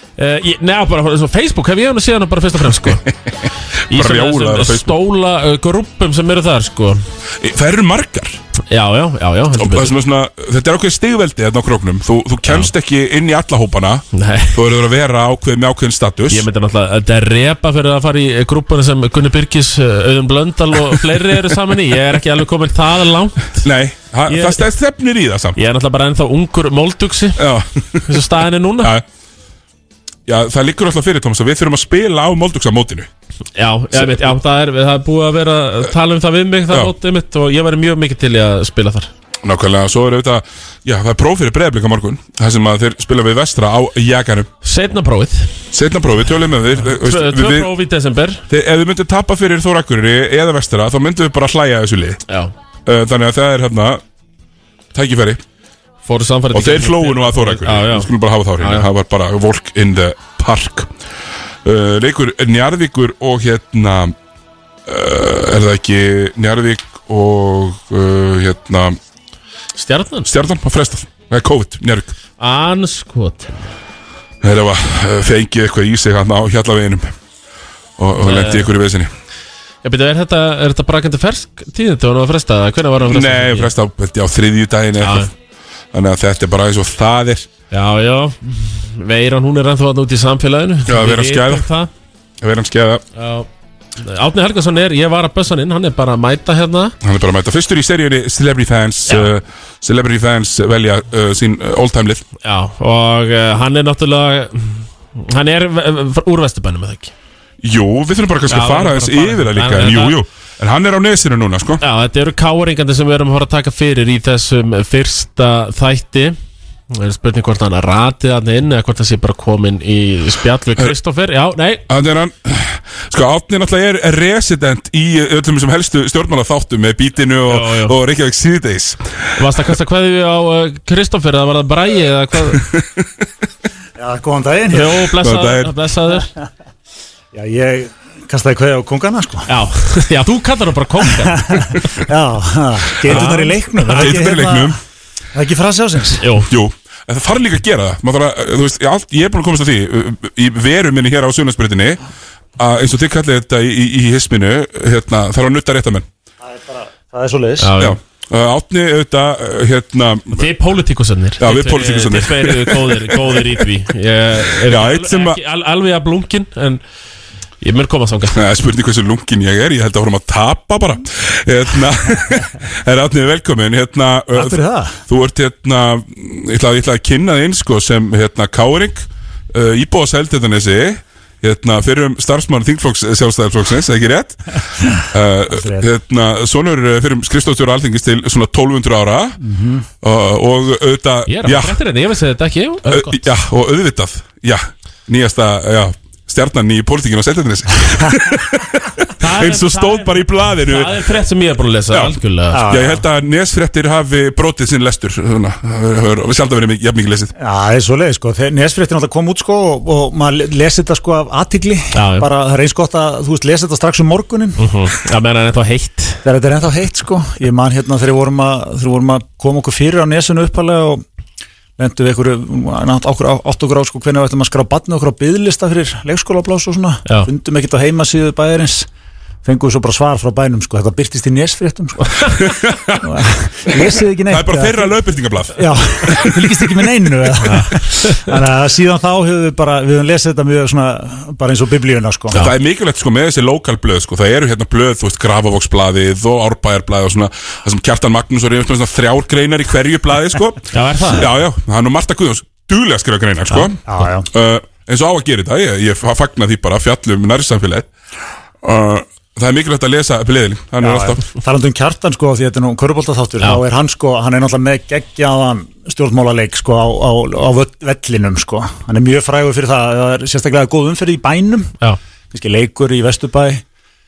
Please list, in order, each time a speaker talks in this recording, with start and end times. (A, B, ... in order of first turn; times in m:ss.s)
0:00.2-0:03.0 A
0:03.9-0:04.9 B
0:03.9-0:07.0 A
0:07.4-0:08.4 B
0:08.7-0:09.9 A
0:09.5-0:16.4 B
0:14.1-0:14.6 A
0:16.3-0:23.6 A
0:23.6-0:25.6 B
0:24.3-0:24.7 A
0:25.6-0:27.5 A
0:27.4-0:28.1 B
0:28.0-0:28.9 A
0:30.3-0:33.1 B
0:33.5-0:39.1 A
0:33.9-0:34.3 B
0:39.4-0:44.5 B
0:44.6-0:45.6 A
0:45.7-0:47.7 B
0:46.7-0:48.4 A
0:48.5-0:52.2 B
0:52.3-0:52.5 A
0:52.8-0:54.0 B
0:54.9-0:55.4 B
0:56.0-0:58.9 A
0:56.5-1:00.9 B
1:01.6-1:04.1 B
1:04.8-1:09.0 B
1:09.8-1:10.3 A
1:10.2-1:12.1 B
1:12.4-1:13.7 A
1:14.4-1:17.1 B
1:18.0-1:19.1 B
1:18.2-1:18.7 A
1:19.8-1:23.7 A
1:23.1-1:25.3 B
1:25.0-1:25.3 A
1:25.9-1:27.5 B
1:27.7-1:31.9 A
1:30.8-1:31.7 B
1:32.4-1:33.0 B
1:33.2-1:33.5 A
1:34.0-1:37.0 A
1:37.0-1:42.2 B
1:42.4-1:47.1 A
1:47.6-1:51.8 B
1:48.5-1:50.2 A
1:51.8-1:56.4 A
1:56.9-2:01.8 A
2:01.9-2:09.2 B
2:07.5-2:08.0 A
2:09.4-2:12.6 A
2:12.5-2:13.2 B
2:14.0-2:15.1 C
2:14.7-2:16.3 A
2:15.1-2:15.7 B
2:17.3-2:19.5 C
2:19.5-2:22.0 A
2:21.1-2:24.8 C
2:23.0-2:24.2 A
2:23.8-2:24.8 B
2:25.3-2:26.3 C
2:26.2-2:26.5 A
2:26.5-2:32.0 B
2:32.6-2:36.1 B
2:36.4-2:37.8 C
2:37.6-2:38.0 A
2:37.8-2:40.5 B
2:40.3-2:46.8 A
2:41.4-2:43.6 B
2:44.6-2:45.4 B
2:47.6-2:48.4 A
2:48.3-3:04.4 B
2:54.3-2:55.0 C
3:05.1-3:09.4 B
3:05.5-3:05.9 C
3:09.4-3:09.9 C
3:10.0-3:11.8 B
3:11.3-3:13.2 A
3:12.9-3:21.0 B
3:19.2-3:22.9 A
3:21.9-3:27.3 B
3:22.5-3:23.0 C
3:27.4-3:34.6 C
3:31.9-3:32.3 A
3:34.6-3:36.2 A
3:36.2-3:41.0 C
3:41.8-3:48.9 C
3:49.4-3:52.4 C
3:52.3-3:53.2 B
3:53.0-3:55.0 C
3:54.3-3:56.7 B
3:55.5-4:02.4 C
3:57.4-3:58.3 A
4:02.3-4:13.8 B
4:10.7-4:11.3 A
4:13.8-4:14.3 C
4:14.3-4:17.9 B
4:18.6-4:21.2 B
4:20.8-4:31.7 C
4:32.3-4:33.6 C